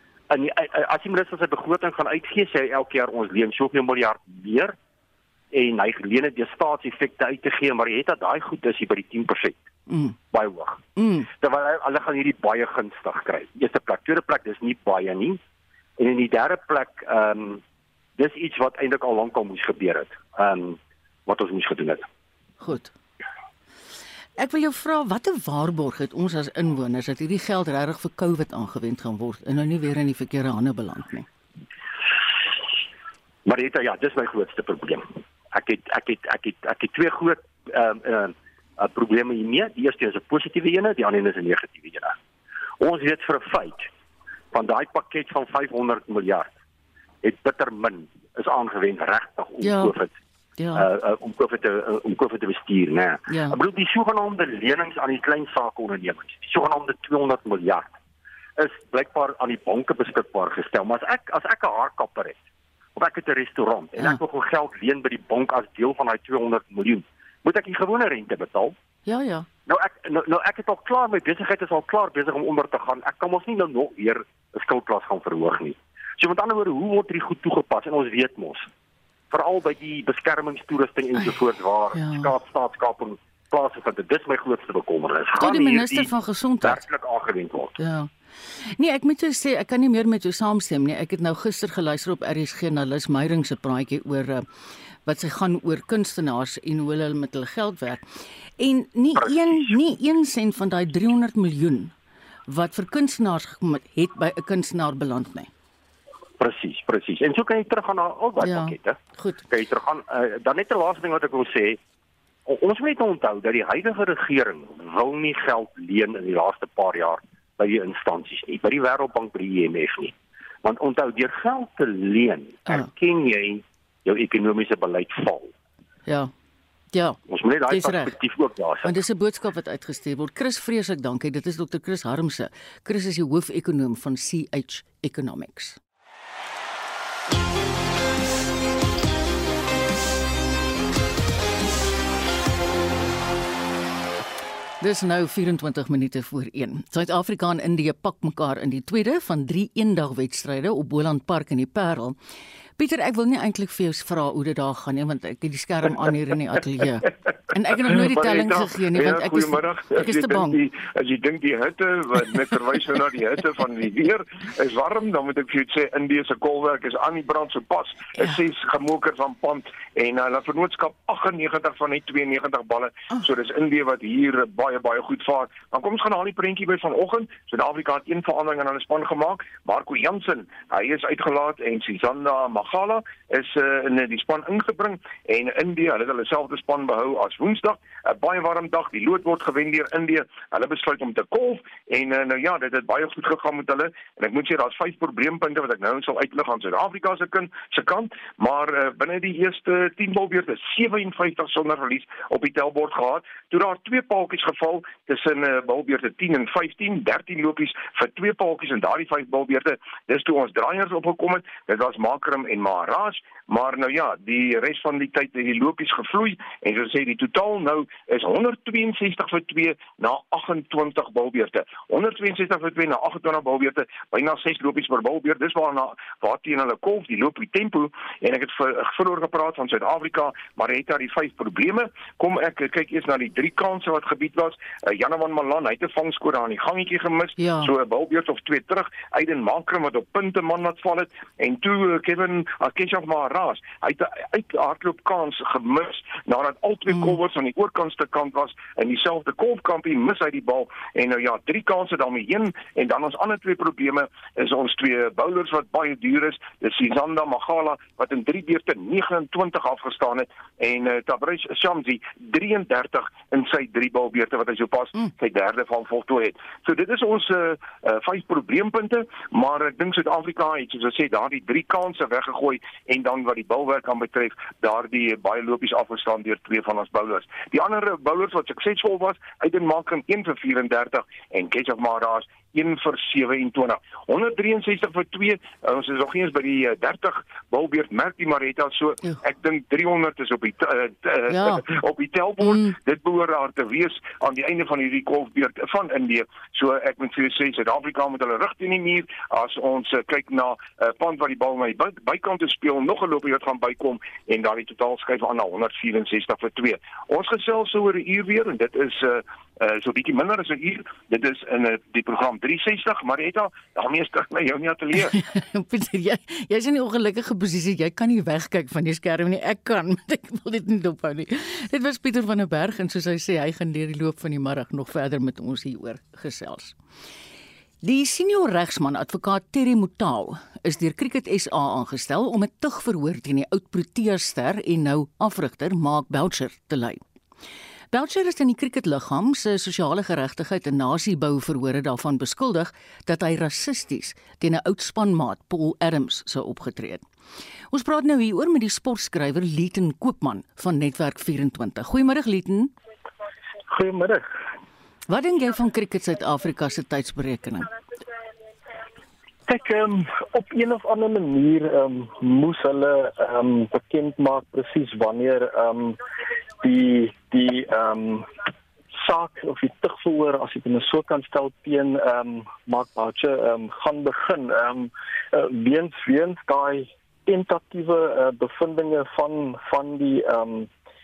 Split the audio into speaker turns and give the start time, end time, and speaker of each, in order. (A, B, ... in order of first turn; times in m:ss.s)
0:00.3-0:04.8 A
0:05.5-0:09.6 A
0:09.9-0:10.2 B
0:10.3-0:10.8 A
0:11.0-0:11.3 B
0:11.3-0:15.4 A
0:16.0-0:17.6 A
0:18.2-0:22.1 A
0:22.6-0:22.9 B
0:24.4-0:31.3 B
0:33.4-0:42.2 A
0:42.8-0:43.9 A
0:44.5-0:46.5 A
0:47.2-0:50.1 A
0:49.6-0:49.9 B
0:50.6-0:50.9 B
0:50.7-0:57.9 A
0:53.3-0:53.6 B
0:58.6-1:02.4 A
1:03.0-1:08.8 A
1:09.0-1:09.5 B
1:09.6-1:18.6 A
1:19.3-1:27.8 A
1:21.9-1:22.3 B
1:25.4-1:26.8 B
1:27.8-1:34.4 B
1:35.0-1:38.0 B
1:38.6-1:41.9 B
1:39.2-1:39.8 A
1:42.5-1:45.5 B
1:46.4-1:51.8 A
1:48.4-1:49.4 B
1:52.4-2:05.5 A
2:06.0-2:06.3 B
2:06.9-2:08.2 B
2:07.3-2:09.0 A
2:08.8-2:15.8 B
2:24.8-2:32.2 B
2:32.8-2:40.6 B
2:37.9-5:15.2 C
3:57.4-3:57.7 B
4:51.3-4:51.6 B
4:52.4-4:52.7 B
5:15.0-5:26.8 B
5:27.8-5:37.0 B
5:37.9-5:47.0 B
5:47.7-5:52.7 B
5:53.7-5:54.3 D
5:55.1-5:57.7 B
5:59.5-6:06.0 D
6:06.6-6:08.3 D
6:08.9-6:20.7 D